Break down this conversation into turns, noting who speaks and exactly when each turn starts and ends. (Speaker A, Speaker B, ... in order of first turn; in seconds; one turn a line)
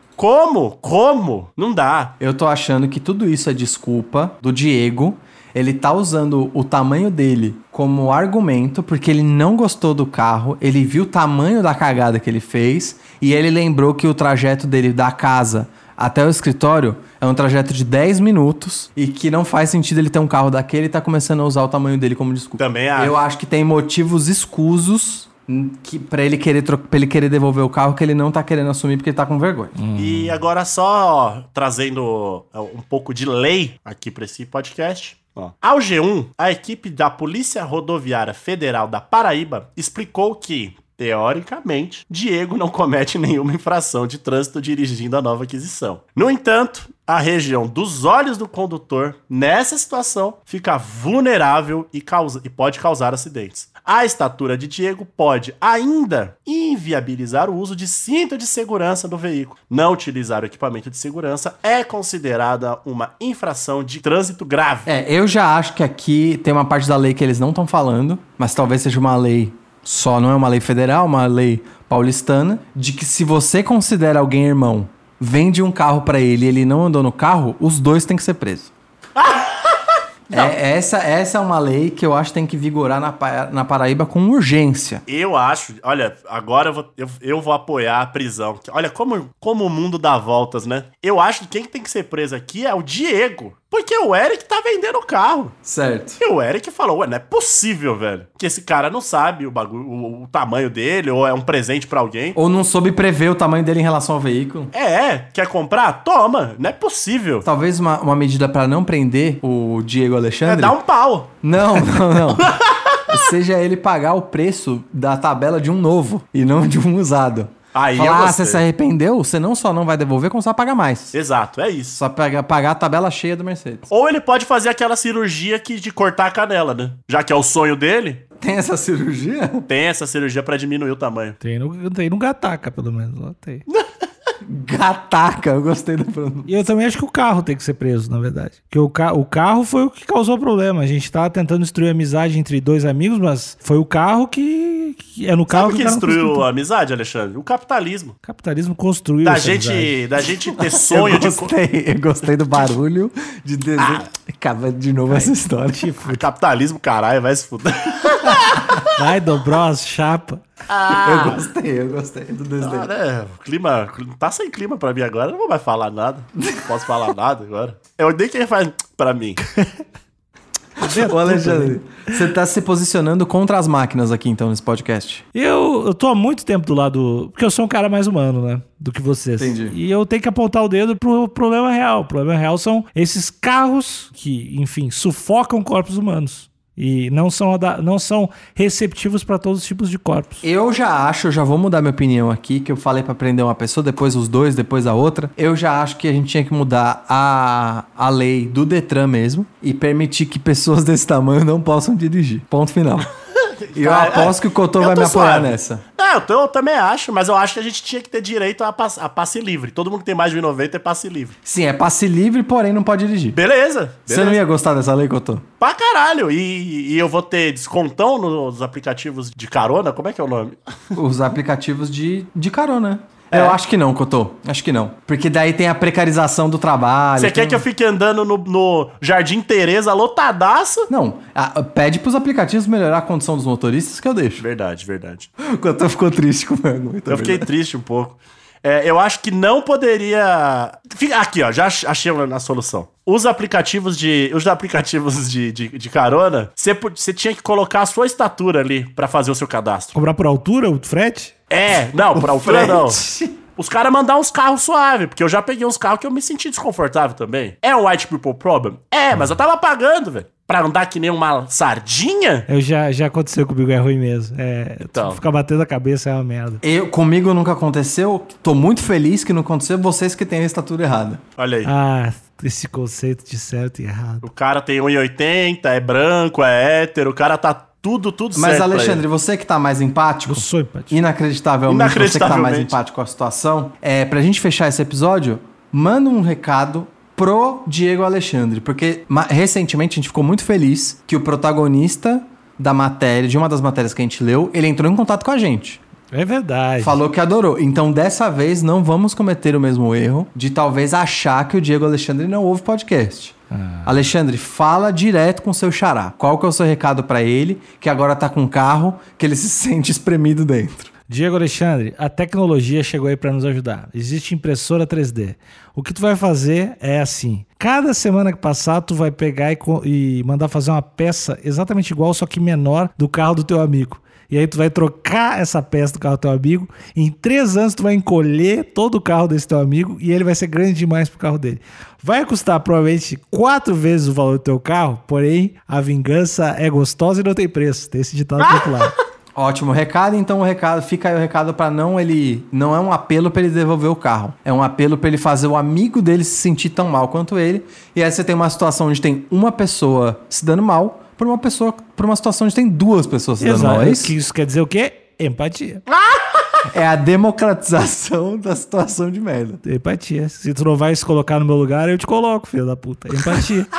Speaker A: 0.2-2.1
Speaker B: 2.2-29.8
Speaker A: 22.6-23.2
Speaker C: 29.8-30.4
Speaker A: 30.0-64.9
Speaker B: 64.9-78.7
Speaker A: 79.2-80.5
Speaker B: 80.3-85.0
Speaker A: 85.1-95.5
Speaker B: 95.7-96.2
Speaker A: 96.2-102.4
Speaker B: 102.3-104.7
Speaker A: 104.7-107.5
Speaker B: 107.5-110.8
Speaker A: 110.5-113.1
Speaker B: 111.4-121.2
Speaker A: 117.7-118.6
Speaker A: 121.1-122.0
Speaker B: 121.9-123.9
Speaker A: 123.9-128.2
Speaker B: 128.4-129.7
Speaker A: 129.7-131.4
Speaker C: 131.4-133.6
Speaker B: 134.4-136.5
Speaker C: 136.5-146.4
Speaker A: 145.5-148.2
Speaker C: 148.2-149.9
Speaker A: 149.2-151.5
Speaker B: 150.6-156.0
Speaker A: 153.8-154.1
Speaker C: 155.1-156.2
Speaker A: 156.1-158.9
Speaker B: 158.2-158.8
Speaker C: 158.9-160.4
Speaker A: 160.7-161.4
Speaker B: 160.9-162.9
Speaker A: 162.6-169.4
Speaker C: 170.8-171.8
Speaker B: 170.8-175.2
Speaker C: 175.3-190.4
Speaker B: 179.4-179.8
Speaker B: 190.4-203.1
Speaker A: 203.4-211.3
Speaker B: 203.8-205.8
Speaker B: 211.4-213.4
Speaker A: 213.4-214.4
Speaker B: 214.1-215.4
Speaker A: 215.6-220.6
Speaker B: 220.9-227.7
Speaker A: 223.3-223.6
Speaker A: 227.2-230.9
Speaker B: 230.9-234.4
Speaker A: 234.4-235.3
Speaker B: 235.4-237.5
Speaker A: 237.1-249.9
Speaker C: 249.9-251.3
Speaker A: 251.5-253.0
Speaker B: 252.1-253.4
Speaker A: 253.6-262.5
Speaker C: 262.5-266.6
Speaker A: 264.9-265.2
Speaker B: 266.6-271.2
Speaker A: 271.4-271.7
Speaker C: 271.6-274.3
Speaker A: 274.2-279.0
Speaker B: 278.4-295.8
Speaker C: 280.3-281.0
Speaker A: 281.7-282.8
Speaker C: 296.1-297.0
Speaker B: 296.8-310.9
Speaker C: 303.5-304.0
Speaker C: 311.1-338.9
Speaker A: 338.4-338.9
Speaker B: 339.4-354.1
Speaker C: 353.4-355.8
Speaker A: 356.0-356.4
Speaker B: 356.7-359.6
Speaker C: 359.6-363.7